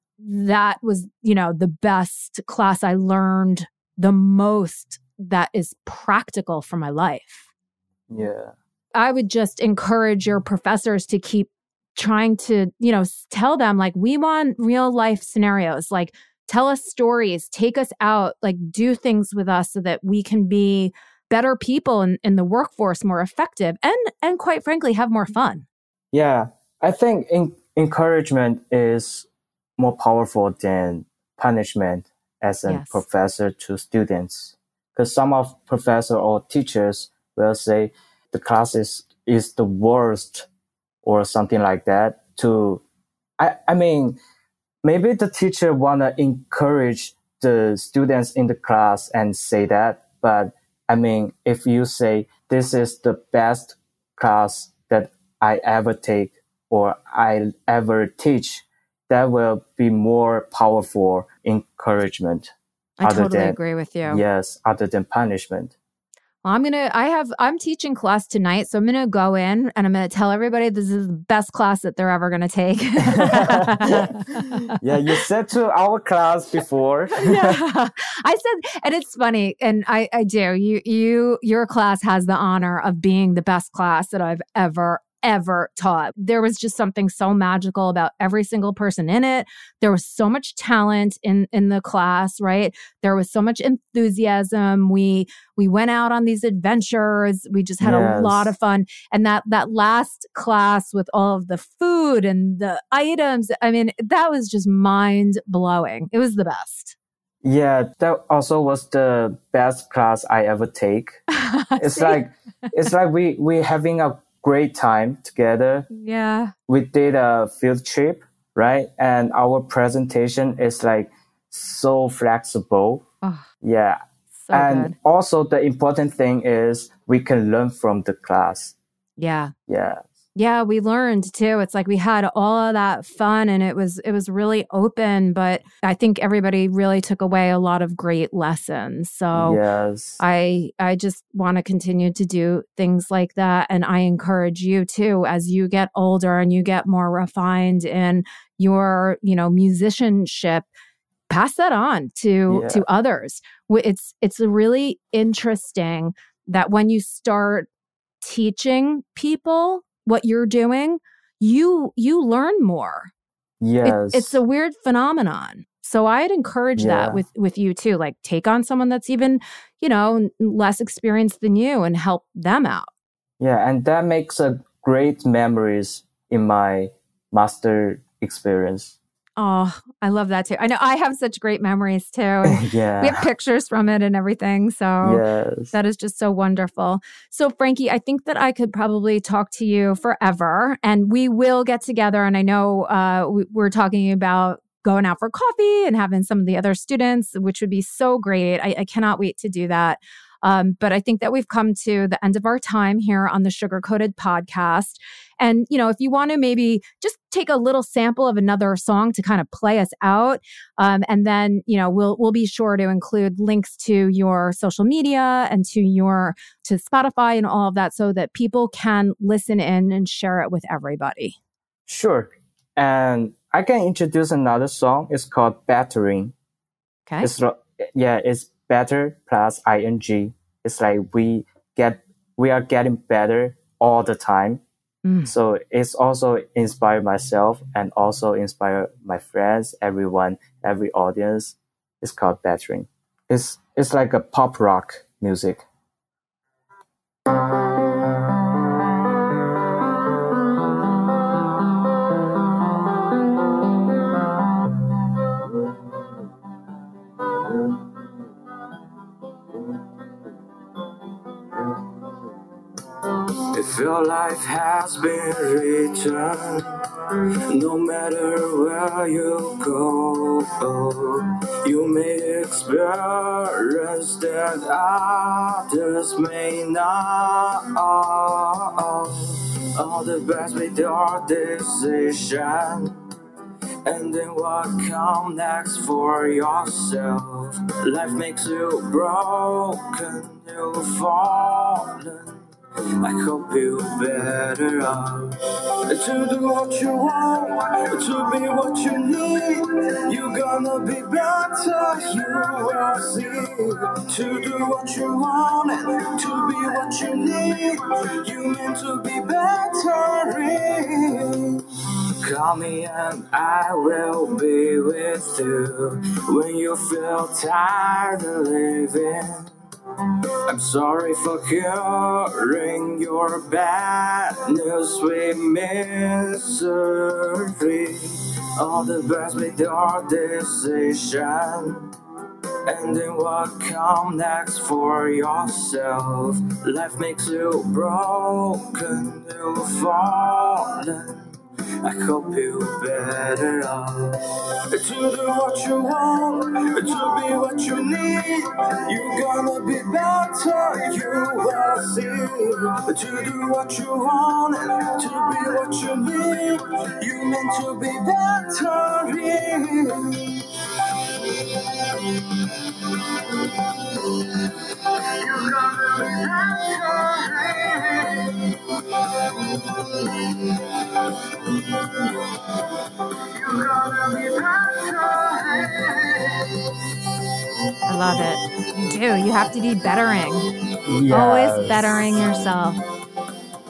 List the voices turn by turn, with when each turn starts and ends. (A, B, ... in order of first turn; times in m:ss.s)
0:00.2-0:07.5 A
0:08.1-0:08.6 B
0:09.0-0:25.7 A
0:26.1-0:29.3 B
0:29.8-0:40.5 B
0:32.7-0:33.0 A
0:41.0-0:42.8 B
0:43.4-0:44.2 B
0:44.8-1:02.5 B
1:03.0-1:04.2 A
1:03.0-1:03.6 B
1:04.1-1:05.8 B
1:06.4-1:14.7 A
1:13.1-1:17.6 B
1:17.1-1:47.0 A
1:37.8-1:38.5 B
1:47.4-1:51.2 B
1:51.3-1:52.2 A
1:51.8-1:55.9 B
1:55.9-1:56.5 A
1:56.7-2:03.0 B
2:03.2-2:03.5 A
2:03.6-2:04.0 B
2:04.4-2:05.0 A
2:04.5-2:08.8 B
2:09.2-2:09.5 A
2:09.7-2:10.1 B
2:10.4-2:19.6 A
2:19.3-2:20.2 B
2:20.2-2:30.7 A
2:31.3-2:37.7 A
2:32.5-2:32.8 B
2:38.2-2:43.1 A
2:43.6-2:44.4 B
2:43.8-2:52.9 A
2:46.8-2:47.2 B
2:53.4-2:59.0 B
2:59.4-3:41.4 A
3:02.4-3:03.3 B
3:05.0-3:05.7 B
3:41.9-3:46.3 B
3:47.2-3:54.6 B
3:55.0-3:55.3 A
3:55.2-4:05.6 B
4:23.5-4:26.7 C
4:27.5-4:43.0 C
4:43.8-4:52.4 C
4:53.0-5:11.6 C
5:12.2-5:19.6 C
5:20.5-5:31.9 C
5:32.6-6:00.6 C
6:03.9-6:08.6 C
6:09.2-6:10.8 C
6:11.4-6:12.1 C
6:13.2-6:16.8 C
6:17.9-6:20.5 A
6:20.9-6:22.1 B
6:21.1-6:22.8 A